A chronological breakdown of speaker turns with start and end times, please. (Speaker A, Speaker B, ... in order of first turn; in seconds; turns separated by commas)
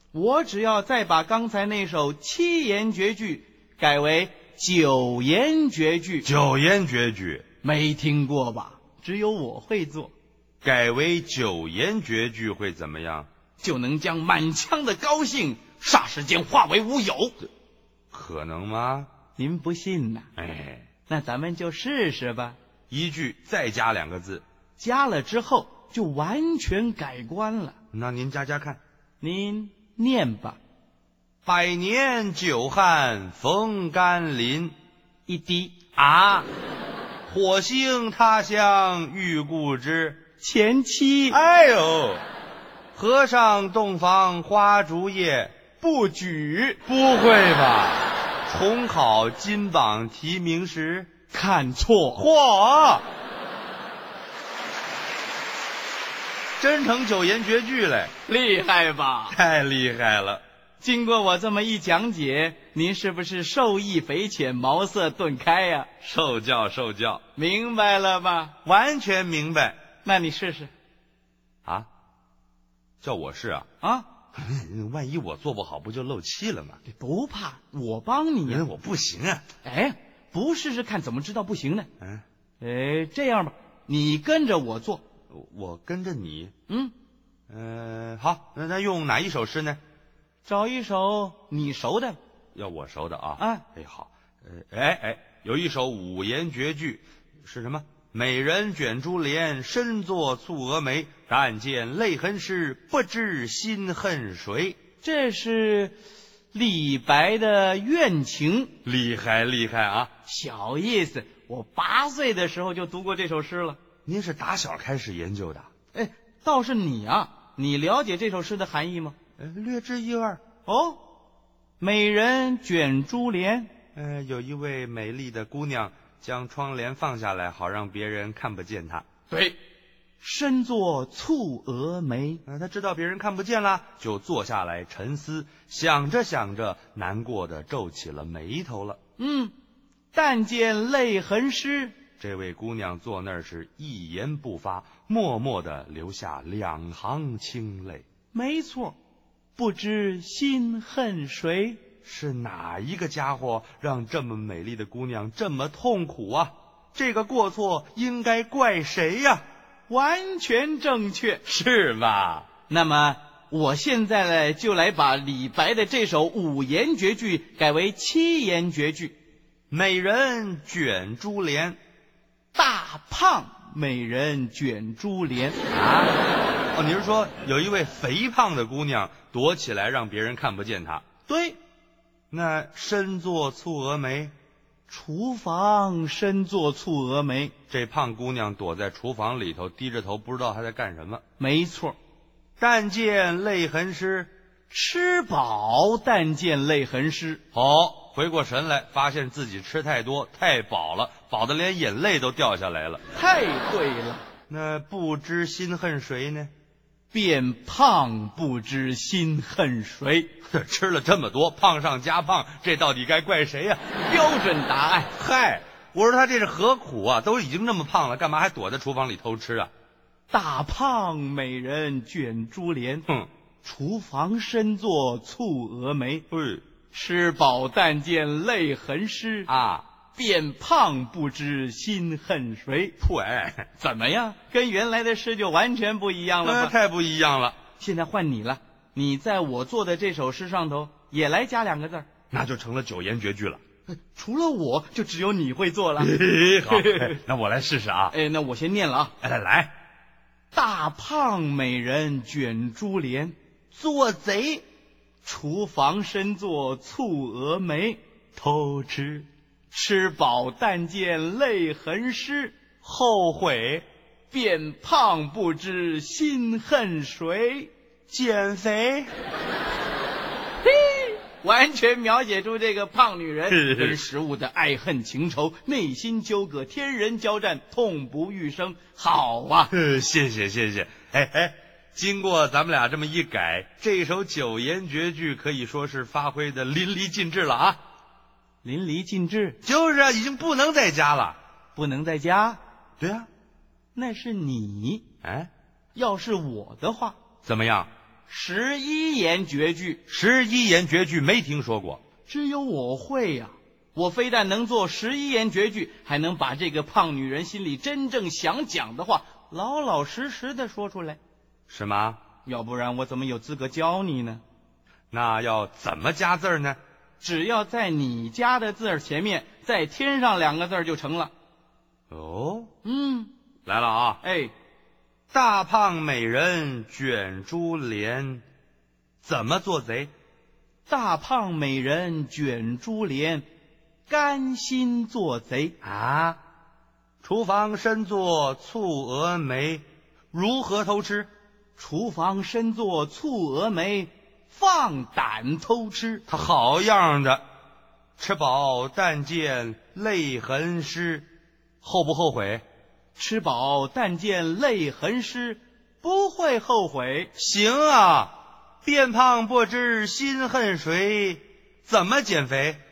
Speaker A: 0.1-6.3, Speaker B: 6.2-7.4, Speaker A: 7.6-10.1, Speaker B: 10.6-13.3, Speaker A: 13.6-17.4, Speaker B: 18.1-19.1, Speaker A: 19.4-20.3, Speaker B: 20.4-20.9, Speaker A: 21.1-22.6, Speaker B: 22.9-24.4, Speaker A: 24.8-27.8, Speaker B: 27.9-28.8, Speaker A: 29.2-30.6, Speaker B: 31.4-34.8, Speaker A: 35.3-35.8, Speaker B: 36.0-36.5, Speaker B: 37.3-40.2, Speaker A: 40.4-41.4, Speaker B: 41.3-42.2, Speaker B: 43.0-45.5, Speaker A: 45.8-46.8, Speaker B: 46.9-51.1, Speaker A: 51.3-52.2, Speaker B: 52.2-53.0, Speaker B: 56.6-58.1, Speaker A: 58.3-59.4, Speaker B: 59.3-60.4, Speaker A: 60.8-66.0, Speaker B: 66.0-67.2, Speaker A: 67.4-68.6, Speaker B: 68.7-69.8, Speaker A: 70.0-70.7, Speaker B: 73.0-73.7, Speaker A: 73.8-74.1, Speaker B: 74.3-76.8, Speaker A: 76.9-78.7, Speaker B: 78.5-79.4, Speaker A: 79.6-81.9, Speaker A: 82.6-85.0, Speaker B: 85.3-86.5, Speaker A: 86.7-86.9, Speaker B: 87.5-89.8, Speaker A: 90.5-92.2, Speaker B: 92.5-104.8, Speaker A: 93.4-93.6, Speaker A: 105.0-106.0, Speaker A: 106.5-108.7, Speaker B: 108.8-110.1, Speaker A: 110.2-113.8, Speaker B: 114.0-115.7, Speaker A: 115.9-119.2, Speaker B: 119.4-120.4, Speaker A: 120.7-121.0, Speaker A: 121.8-123.7, Speaker B: 124.0-129.1, Speaker A: 129.3-129.6, Speaker A: 130.2-132.4, Speaker B: 132.5-139.0, Speaker A: 139.2-139.5, Speaker A: 140.1-141.9, Speaker B: 142.2-148.1, Speaker A: 148.3-149.0, Speaker A: 149.6-151.8, Speaker B: 152.0-159.4, Speaker A: 159.9-161.4, Speaker B: 161.5-162.5, Speaker A: 162.7-169.2, Speaker B: 169.7-171.8, Speaker A: 172.5-175.6, Speaker B: 175.7-176.2, Speaker B: 176.8-181.0, Speaker A: 181.3-181.6, Speaker B: 182.3-184.3, Speaker A: 184.9-187.5, Speaker B: 187.7-191.2, Speaker A: 191.4-192.0, Speaker B: 192.6-194.3, Speaker A: 194.7-197.4, Speaker B: 197.5-203.0, Speaker A: 203.1-204.3, Speaker B: 204.5-206.5, Speaker A: 207.1-210.3, Speaker B: 210.5-213.8, Speaker A: 214.1-215.1, Speaker B: 215.2-219.7, Speaker A: 220.3-223.1, Speaker A: 223.6-226.2, Speaker B: 226.3-226.7, Speaker A: 226.9-229.5, Speaker B: 229.5-229.9, Speaker A: 230.2-232.9, Speaker B: 233.0-233.7, Speaker A: 233.8-236.7, Speaker B: 236.4-237.6, Speaker A: 237.8-242.1, Speaker B: 242.3-243.6, Speaker A: 243.9-247.2, Speaker B: 246.0-248.2, Speaker A: 248.1-249.1, Speaker B: 249.2-249.7, Speaker A: 250.5-253.3, Speaker B: 253.7-254.6, Speaker A: 255.2-258.0, Speaker B: 258.4-259.3, Speaker A: 259.7-262.6, Speaker B: 262.8-263.9, Speaker A: 264.3-267.7, Speaker B: 268.1-269.1, Speaker A: 270.6-279.7, Speaker B: 273.5-274.0, Speaker B: 279.7-287.8, Speaker A: 288.6-289.6, Speaker B: 289.6-291.4, Speaker A: 291.8-292.6, Speaker B: 293.0-293.3, Speaker A: 293.9-295.1, Speaker B: 295.2-295.5, Speaker A: 295.9-297.2, Speaker B: 297.4-297.9, Speaker A: 298.3-300.0, Speaker B: 300.1-302.0, Speaker A: 302.3-311.2, Speaker B: 311.7-312.2, Speaker A: 312.4-314.4, Speaker B: 315.1-316.8, Speaker A: 317.2-321.3, Speaker B: 322.1-322.7, Speaker A: 322.8-323.3, Speaker B: 323.7-324.2, Speaker A: 324.2-324.5, Speaker B: 325.3-328.4, Speaker B: 329.2-330.1, Speaker A: 330.9-333.5, Speaker A: 334.1-335.8, Speaker B: 335.8-336.4, Speaker B: 337.2-341.3, Speaker A: 341.8-346.2, Speaker B: 346.3-347.4, Speaker B: 348.2-351.3, Speaker B: 351.8-352.6, Speaker A: 353.2-357.3, Speaker B: 357.4-362.8